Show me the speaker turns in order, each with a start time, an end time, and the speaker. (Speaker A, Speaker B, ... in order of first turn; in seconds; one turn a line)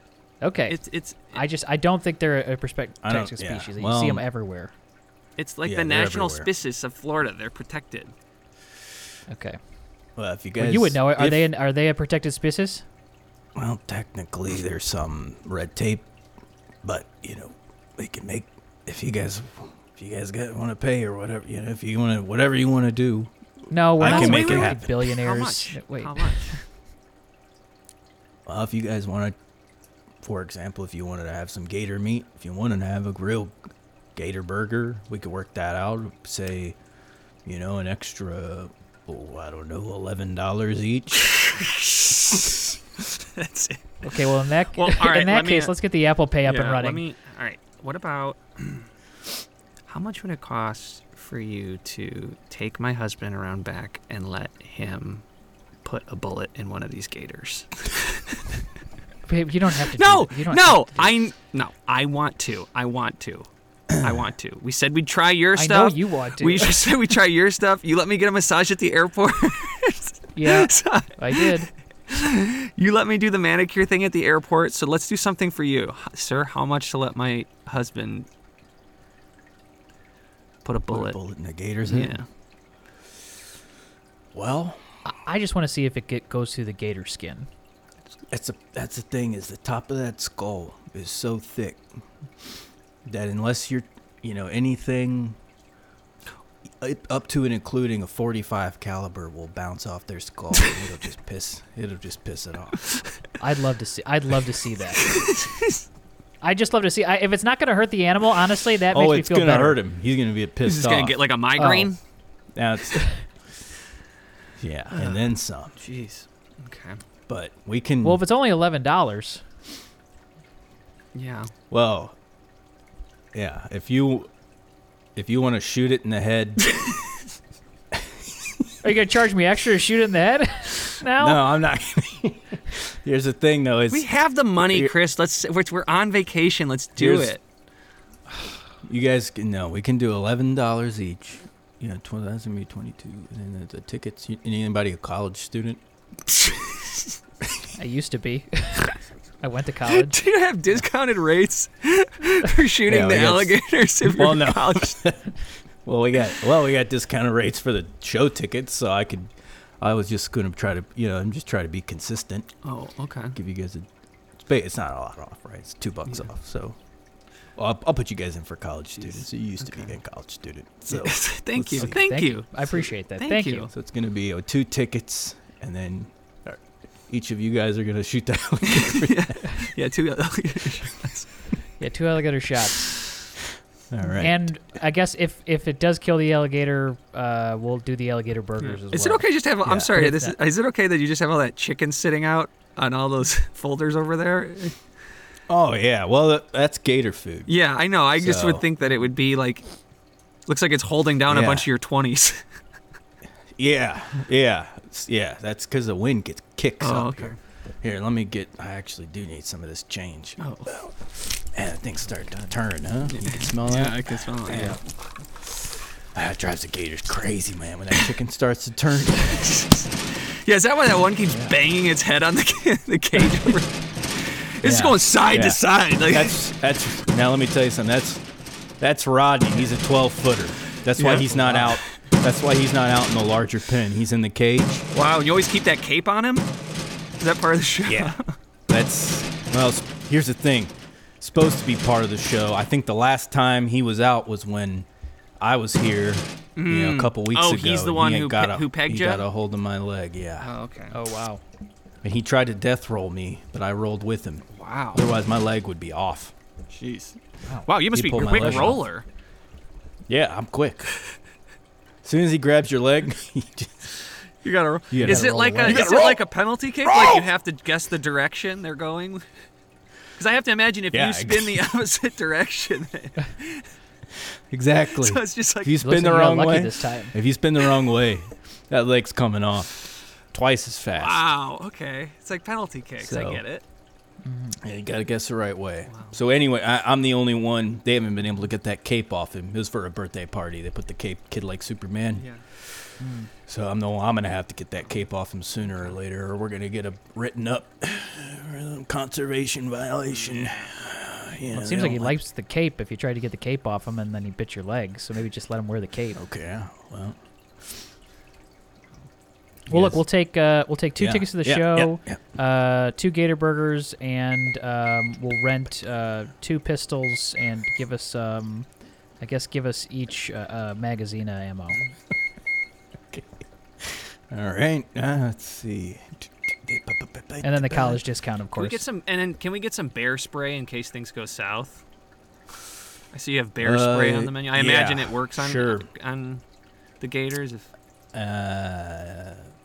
Speaker A: 0.4-0.8
Speaker B: 0.7-1.4
Speaker A: 1.3-4.7
Speaker C: 3.0-4.2
Speaker B: 5.4-8.1
Speaker C: 5.6-6.5
Speaker A: 9.3-9.6
Speaker C: 10.2-11.4
Speaker A: 10.6-12.8
Speaker C: 13.5-16.1
Speaker C: 16.8-23.3
Speaker A: 23.7-26.6
Speaker C: 23.9-25.1
Speaker B: 24.0-26.6
Speaker C: 28.4-29.3
Speaker C: 30.2-33.6
Speaker C: 34.1-36.8
Speaker C: 37.4-41.4
Speaker B: 41.2-44.0
Speaker A: 44.0-47.0
Speaker B: 44.7-45.7
Speaker B: 46.4-48.9
Speaker B: 49.9-55.2
Speaker B: 55.8-58.4
Speaker A: 59.3-61.1
Speaker B: 59.9-78.3
Speaker C: 63.9-64.2
Speaker A: 65.5-66.8
Speaker A: 70.3-71.7
Speaker B: 80.6-81.2
Speaker C: 80.9-82.2
Speaker B: 81.8-82.2
Speaker C: 84.3-84.8
Speaker A: 85.0-87.5
Speaker C: 88.3-91.8
Speaker C: 93.0-95.4
Speaker C: 96.8-102.8
Speaker A: 103.4-105.1
Speaker B: 105.0-105.8
Speaker A: 106.4-109.8
Speaker C: 108.9-111.2
Speaker B: 110.6-112.0
Speaker A: 111.6-111.9
Speaker C: 112.5-113.0
Speaker C: 114.6-115.7
Speaker B: 114.9-115.2
Speaker B: 115.8-117.0
Speaker C: 117.3-118.2
Speaker A: 118.0-119.4
Speaker B: 121.1-121.5
Speaker C: 121.7-122.2
Speaker C: 123.3-124.3
Speaker C: 125.2-126.7
Speaker A: 128.8-131.4
Speaker C: 131.2-134.1
Speaker B: 133.9-137.4
Speaker C: 134.6-134.9
Speaker C: 136.9-137.3
Speaker C: 138.8-145.8
Speaker B: 146.3-147.1
Speaker A: 147.8-150.2
Speaker B: 149.9-155.0
Speaker C: 152.8-162.5
Speaker B: 162.6-163.3
Speaker C: 163.3-166.8
Speaker C: 167.6-172.0
Speaker B: 169.0-169.9
Speaker B: 170.9-173.7
Speaker A: 171.8-173.7
Speaker C: 173.7-179.6
Speaker B: 178.7-181.3
Speaker A: 181.8-183.0
Speaker C: 183.9-184.5
Speaker A: 184.1-189.2
Speaker B: 188.6-194.8
Speaker C: 189.6-189.9
Speaker A: 189.9-190.3
Speaker C: 195.5-197.5
Speaker B: 197.5-199.6
Speaker C: 198.1-198.7
Speaker B: 200.5-202.4
Speaker C: 201.3-201.7
Speaker C: 203.6-214.8
Speaker B: 206.8-207.4
Speaker B: 210.4-210.7
Speaker B: 213.1-214.8
Speaker A: 214.5-214.8
Speaker C: 216.1-219.6
Speaker B: 219.2-226.4
Speaker C: 224.6-228.2
Speaker C: 228.8-234.8
Speaker B: 230.9-231.8
Speaker A: 231.3-231.6
Speaker B: 234.9-236.5
Speaker B: 237.2-238.3
Speaker C: 237.8-238.2
Speaker C: 238.7-244.9
Speaker C: 245.4-250.5
Speaker B: 246.6-249.2
Speaker B: 250.4-251.0
Speaker A: 250.9-251.4
Speaker C: 252.0-256.3
Speaker B: 254.5-255.0
Speaker B: 256.7-259.0
Speaker A: 257.5-258.8
Speaker C: 257.9-258.8
Speaker C: 260.1-260.9
Speaker C: 262.0-263.9
Speaker B: 264.4-269.2
Speaker C: 264.9-266.3
Speaker A: 265.0-265.9
Speaker C: 266.8-267.3
Speaker B: 270.2-273.7
Speaker C: 270.9-271.6
Speaker C: 274.5-281.2
Speaker B: 274.9-275.8
Speaker A: 275.8-277.1
Speaker B: 281.0-283.6
Speaker C: 283.0-283.4
Speaker A: 284.2-284.6
Speaker C: 284.6-292.2
Speaker B: 285.9-286.1
Speaker B: 292.2-292.4
Speaker A: 293.0-293.3
Speaker C: 293.4-302.1
Speaker B: 300.1-300.6
Speaker A: 301.5-306.2
Speaker C: 306.1-307.2
Speaker C: 309.7-310.0
Speaker A: 309.7-318.7
Speaker C: 311.0-312.2
Speaker A: 319.2-321.8
Speaker C: 323.1-328.0
Speaker A: 327.4-328.8
Speaker B: 328.6-331.8
Speaker B: 333.1-336.4
Speaker C: 333.6-335.9
Speaker B: 337.0-337.7
Speaker C: 338.1-339.5